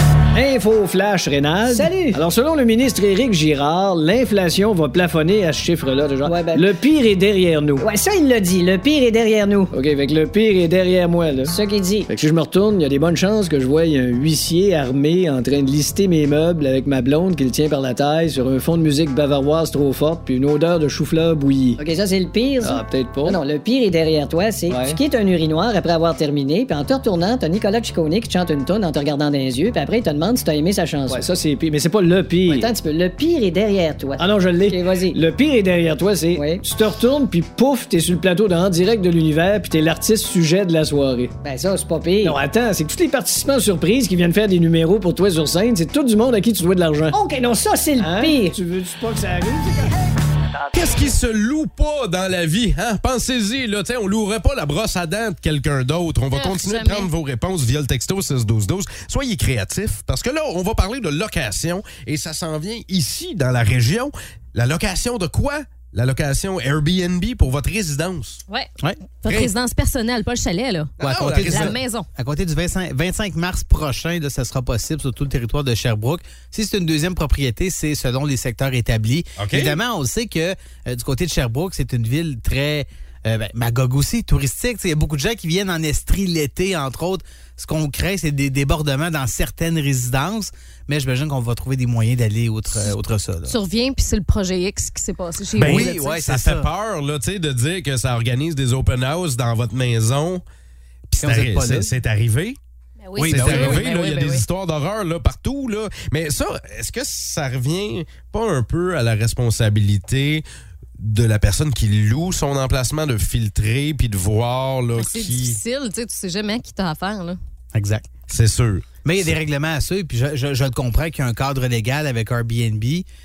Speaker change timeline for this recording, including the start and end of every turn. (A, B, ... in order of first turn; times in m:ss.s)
0:00.3-0:07.9 A
0:01.7-0:02.2 B
0:06.2-0:06.7 B
0:07.8-0:09.7 B
0:09.7-0:11.6 A
0:11.5-0:12.1 B
0:12.1-0:21.8 A
0:21.8-0:31.3 B
0:22.6-0:23.4 A
0:24.7-0:25.0 A
0:31.1-0:32.7 A
0:32.5-0:35.2 B
0:34.2-0:41.3 A
0:36.4-0:36.6 B
0:41.4-0:42.4 B
0:42.2-0:47.2 A
0:47.1-0:48.6 B
0:48.0-0:50.0 A
0:50.5-0:51.0 B
0:50.7-1:08.4 C
0:56.3-0:57.1 D
1:08.8-1:09.1 E
1:09.2-1:12.1 D
1:09.3-1:09.5 C
1:11.0-1:33.6 E
1:11.0-1:11.8 C
1:19.4-1:19.8 C
1:33.5-1:36.1 D
1:35.6-1:36.7 E
1:35.6-1:40.4 C
1:41.1-1:42.6 C
1:41.2-1:41.9 E
1:43.0-1:44.4 D
1:43.2-1:43.9 E
1:43.2-1:50.4 C
1:51.0-1:55.6 C
1:55.0-1:57.4 D
1:57.7-1:58.1 E
1:58.3-1:59.4 C
1:59.0-2:03.0 E